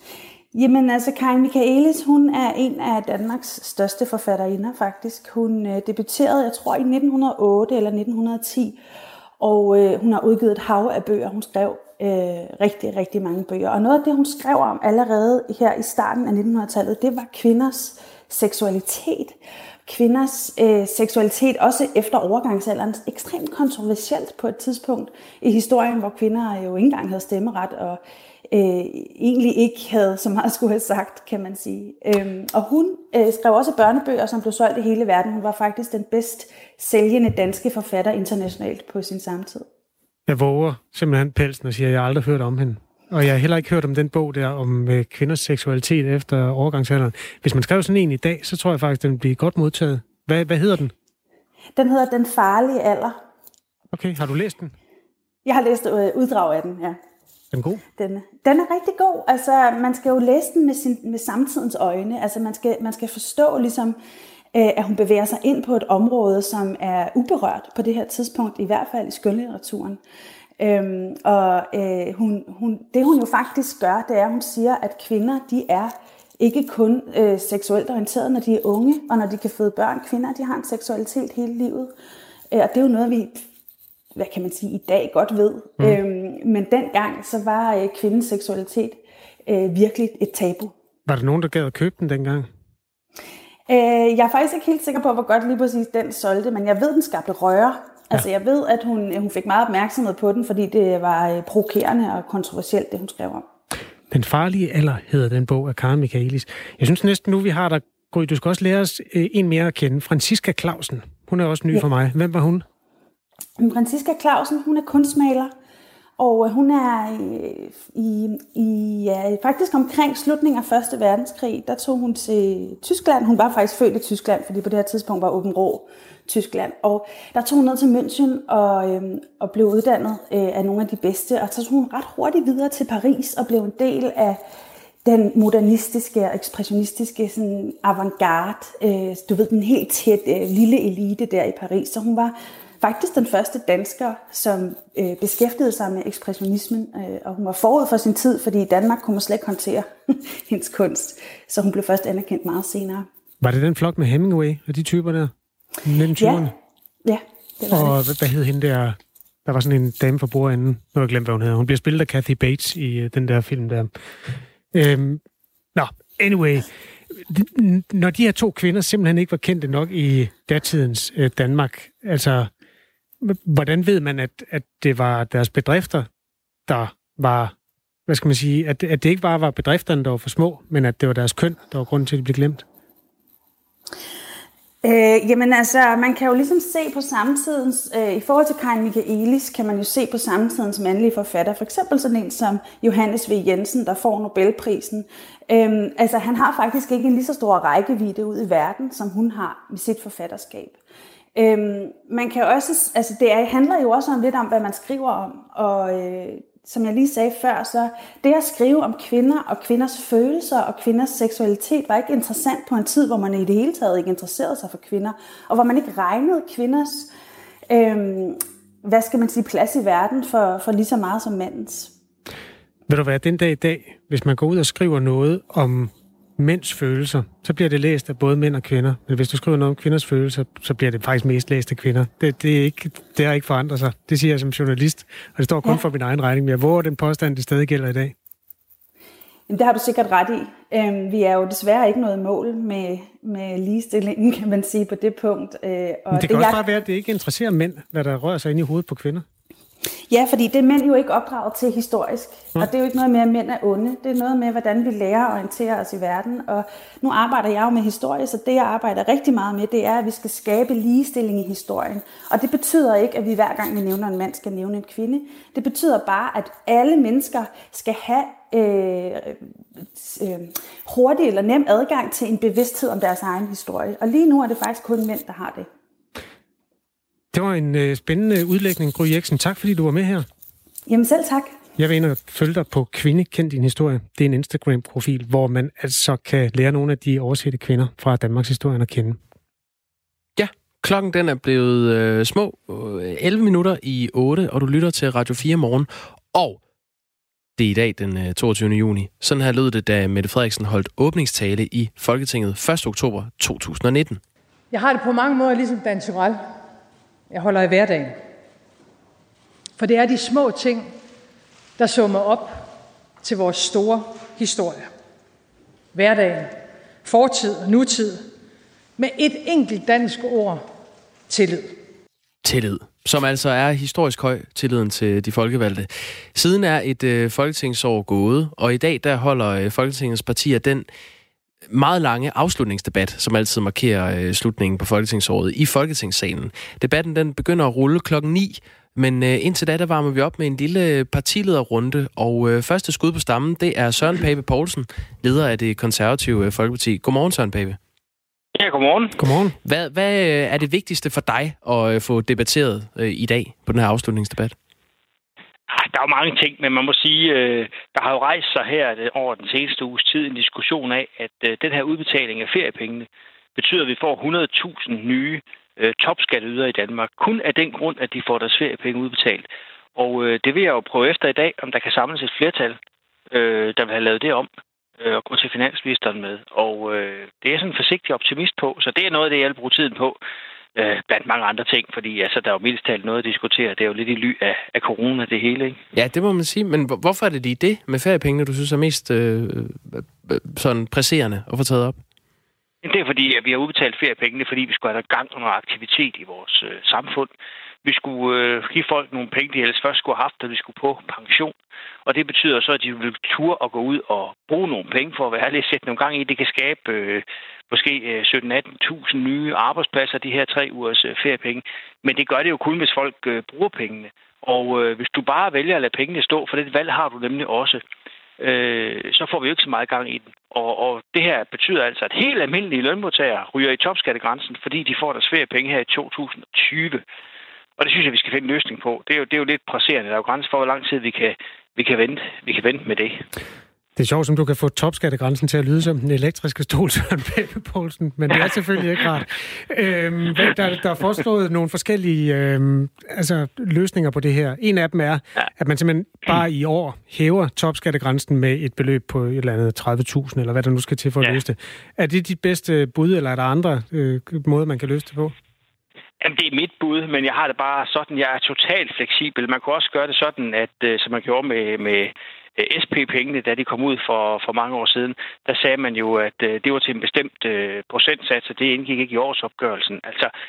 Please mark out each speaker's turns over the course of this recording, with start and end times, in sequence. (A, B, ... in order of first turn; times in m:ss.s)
0:00.5-0:08.8 A
0:09.4-0:28.0 A
0:28.5-0:39.7 A
0:40.3-0:50.9 B
0:51.8-0:53.2 A
0:53.9-0:54.7 B
0:55.5-0:57.0 A
0:57.5-0:57.8 B
0:58.0-1:04.0 A
1:04.6-1:10.0 A
1:10.6-1:21.9 A
1:22.5-1:23.4 A
1:24.2-1:30.7 A
1:31.1-1:32.5 B
1:33.7-1:43.4 A
1:44.1-1:52.6 B
1:53.6-1:55.5 A
1:56.2-2:14.4 A
2:15.0-2:33.1 A
2:33.4-2:35.3 B
2:35.8-2:36.5 B
2:36.2-2:36.5 A
2:37.0-2:38.0 A
2:37.7-2:43.9 B
2:44.7-2:45.2 B
2:45.8-2:46.7 B
2:47.2-2:52.5 B
2:53.2-2:56.1 B
2:56.7-2:57.5 B
2:58.1-3:02.6 B
3:04.8-3:20.8 A
3:21.4-3:37.1 A
3:37.7-3:41.9 A
3:42.9-3:58.2 B
3:59.5-4:06.6 A
4:06.1-4:09.2 B
4:10.1-4:29.4 A
4:30.0-4:35.7 A
4:37.3-4:40.3 B
4:40.9-4:41.5 A
4:41.8-4:49.2 B
4:50.4-4:56.6 C
4:57.6-5:04.2 C
5:04.7-5:06.4 D
5:07.3-5:08.2 D
5:09.8-5:10.9 D
5:11.8-5:12.7 D
5:13.2-5:14.9 D
5:15.9-5:18.3 D
5:19.0-5:20.7 D
5:21.3-5:21.8 D
5:22.4-5:30.9 C
5:31.7-5:47.8 C
5:48.6-5:49.2 E
5:49.2-5:49.6 B
5:49.6-5:54.6 C
5:55.7-6:12.8 E
6:13.3-6:14.5 E
6:15.0-6:20.2 E
6:20.8-6:25.8 E
6:25.9-6:32.0 C
6:32.8-6:37.3 E
6:37.8-6:41.5 E
6:42.1-6:57.8 E
6:58.4-7:07.0 E
7:07.8-7:13.2 E
7:14.0-7:35.4 B
7:36.2-7:50.3 E